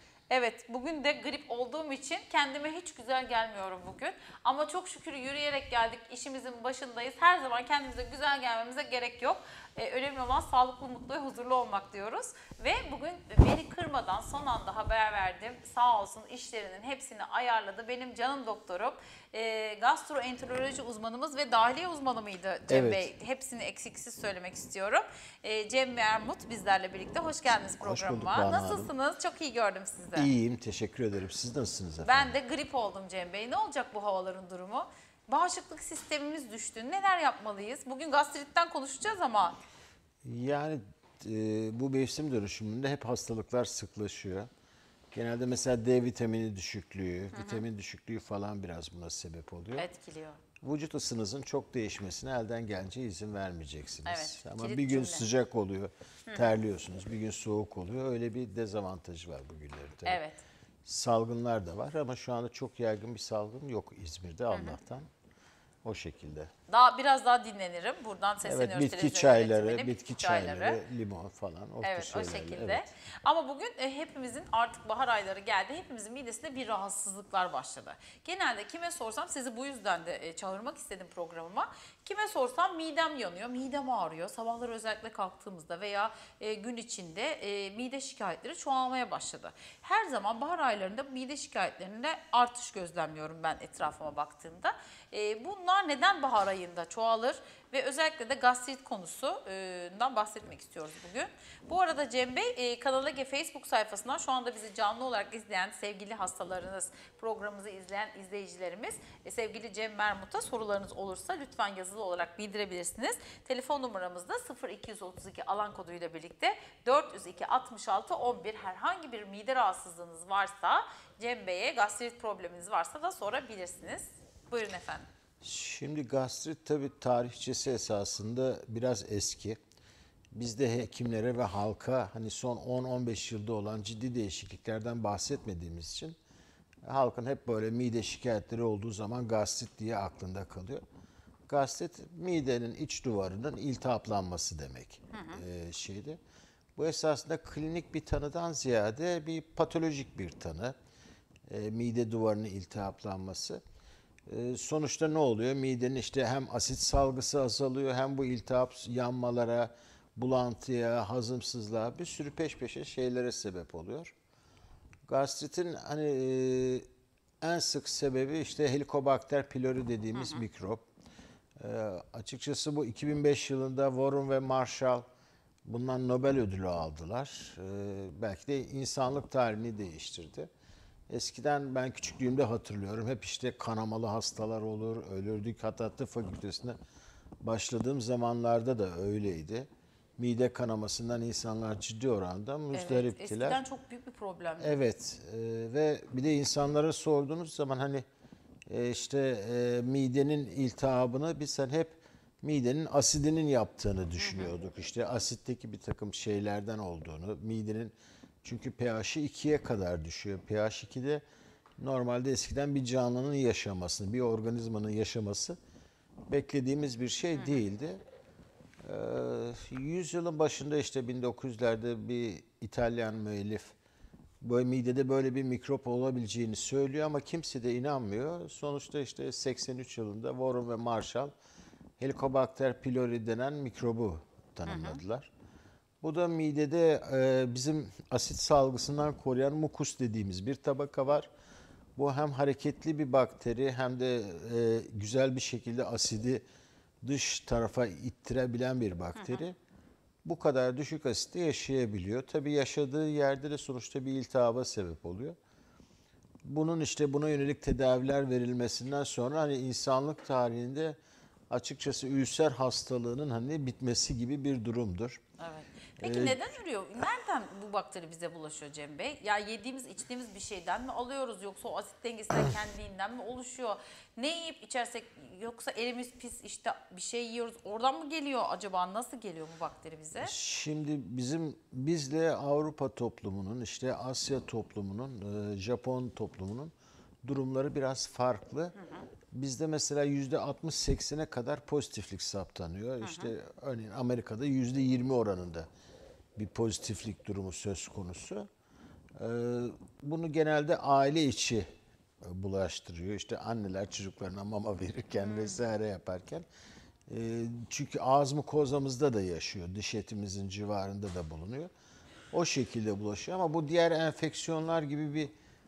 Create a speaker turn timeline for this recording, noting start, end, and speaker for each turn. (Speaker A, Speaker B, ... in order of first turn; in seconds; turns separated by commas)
Speaker A: 0.3-30.3, Speaker B: 22.7-23.1, Speaker B: 27.8-28.9, Speaker B: 30.2-32.3, Speaker A: 32.0-39.6, Speaker B: 40.2-44.5, Speaker B: 45.1-49.9, Speaker A: 47.4-47.6, Speaker A: 49.8-50.4, Speaker B: 50.6-60.2, Speaker A: 54.0-55.3, Speaker A: 60.0-60.4, Speaker B: 60.9-65.1, Speaker B: 65.8-66.5, Speaker A: 66.7-70.8, Speaker B: 68.4-72.8, Speaker A: 71.8-125.1, Speaker B: 125.4-129.6, Speaker B: 130.3-136.2, Speaker B: 136.8-140.8, Speaker B: 141.5-146.2, Speaker A: 145.1-145.4, Speaker B: 146.8-150.8, Speaker B: 151.5-153.6, Speaker B: 154.3-164.1, Speaker B: 165.1-166.9, Speaker B: 167.4-170.8, Speaker A: 170.1-170.4, Speaker B: 171.6-175.1, Speaker B: 175.6-180.5, Speaker B: 181.1-186.8, Speaker B: 187.4-193.6, Speaker A: 192.7-194.8, Speaker B: 194.6-198.1, Speaker B: 198.7-211.2, Speaker A: 204.2-204.5, Speaker B: 211.8-215.6, Speaker B: 216.3-218.0, Speaker B: 218.8-223.7, Speaker B: 224.4-231.3, Speaker B: 232.0-235.3, Speaker A: 234.7-235.0, Speaker B: 236.0-241.3, Speaker B: 242.0-246.4, Speaker B: 247.0-249.6, Speaker A: 249.2-249.4, Speaker B: 250.2-255.4, Speaker B: 256.4-261.0, Speaker B: 261.5-265.2, Speaker A: 265.4-280.3, Speaker B: 266.0-266.4, Speaker B: 280.2-286.7, Speaker B: 287.2-288.8, Speaker B: 289.3-295.7, Speaker A: 293.0-293.3, Speaker B: 296.4-298.5, Speaker B: 299.2-301.7, Speaker B: 302.2-306.5, Speaker A: 305.3-305.6, Speaker B: 307.1-311.7, Speaker B: 312.3-315.3